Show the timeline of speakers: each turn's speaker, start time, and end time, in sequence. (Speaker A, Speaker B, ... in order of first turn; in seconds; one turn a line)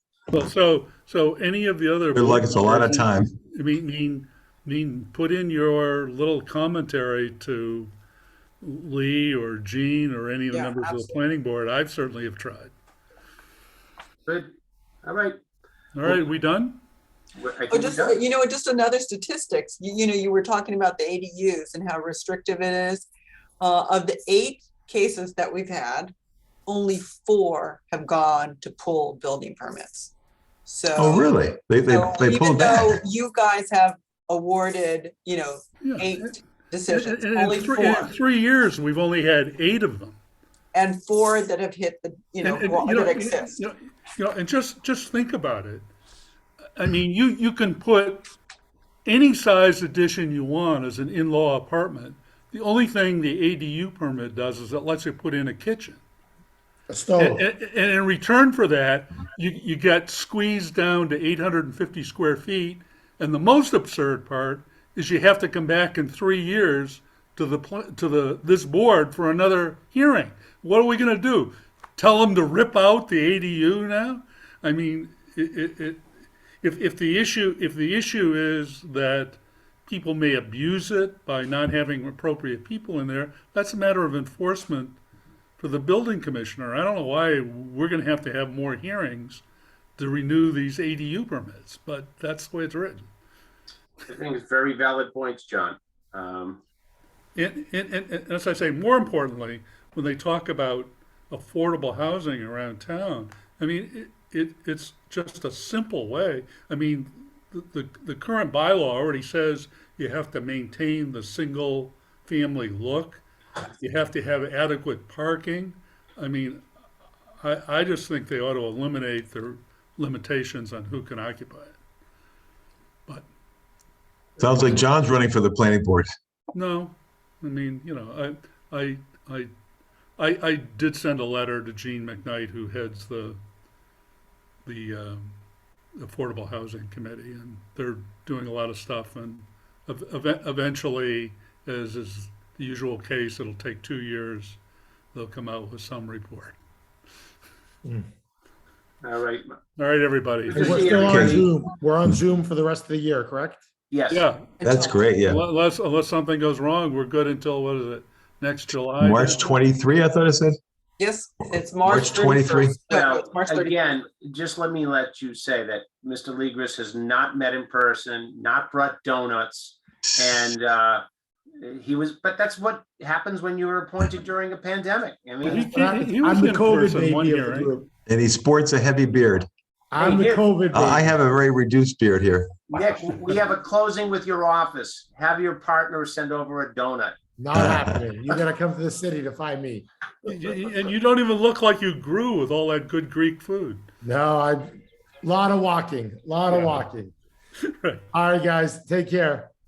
Speaker A: 0.3-7.9
Speaker B: 2.1-3.3
Speaker A: 8.6-12.7
Speaker C: 10.5-11.1
Speaker D: 15.0-15.4
Speaker A: 15.9-16.8
Speaker D: 17.4-18.2
Speaker C: 17.7-23.1
Speaker C: 23.6-26.1
Speaker C: 26.7-30.1
Speaker C: 30.6-38.1
Speaker B: 30.9-33.0
Speaker A: 35.8-36.3
Speaker A: 36.9-40.2
Speaker C: 40.7-43.6
Speaker A: 42.4-45.9
Speaker A: 46.8-48.3
Speaker A: 49.0-56.0
Speaker E: 56.9-57.4
Speaker A: 57.2-76.0
Speaker A: 76.6-85.0
Speaker A: 85.6-89.4
Speaker A: 90.0-93.1
Speaker D: 94.0-96.6
Speaker A: 97.3-113.2
Speaker A: 113.8-116.6
Speaker A: 117.4-121.8
Speaker B: 124.4-126.1
Speaker A: 126.5-129.5
Speaker A: 130.2-133.4
Speaker A: 134.6-135.3
Speaker A: 136.0-144.6
Speaker A: 145.1-146.6
Speaker D: 149.0-149.5
Speaker A: 149.8-151.1
Speaker D: 150.5-151.5
Speaker E: 150.5-153.6
Speaker B: 151.0-151.5
Speaker D: 153.9-154.3
Speaker A: 154.1-154.5
Speaker C: 154.6-155.1
Speaker B: 154.6-155.4
Speaker A: 155.2-159.6
Speaker B: 159.0-160.6
Speaker C: 161.0-163.9
Speaker B: 161.8-162.8
Speaker D: 162.9-171.0
Speaker B: 170.1-170.4
Speaker D: 171.6-175.7
Speaker A: 175.4-177.7
Speaker E: 175.4-177.9
Speaker B: 178.1-179.5
Speaker E: 179.9-181.1
Speaker D: 180.0-180.4
Speaker B: 180.7-182.6
Speaker D: 182.7-187.2
Speaker E: 187.4-189.9
Speaker B: 187.5-188.0
Speaker A: 190.2-193.8
Speaker E: 194.0-194.7
Speaker E: 195.2-197.1
Speaker A: 196.5-196.8
Speaker A: 197.7-198.0
Speaker E: 198.1-199.5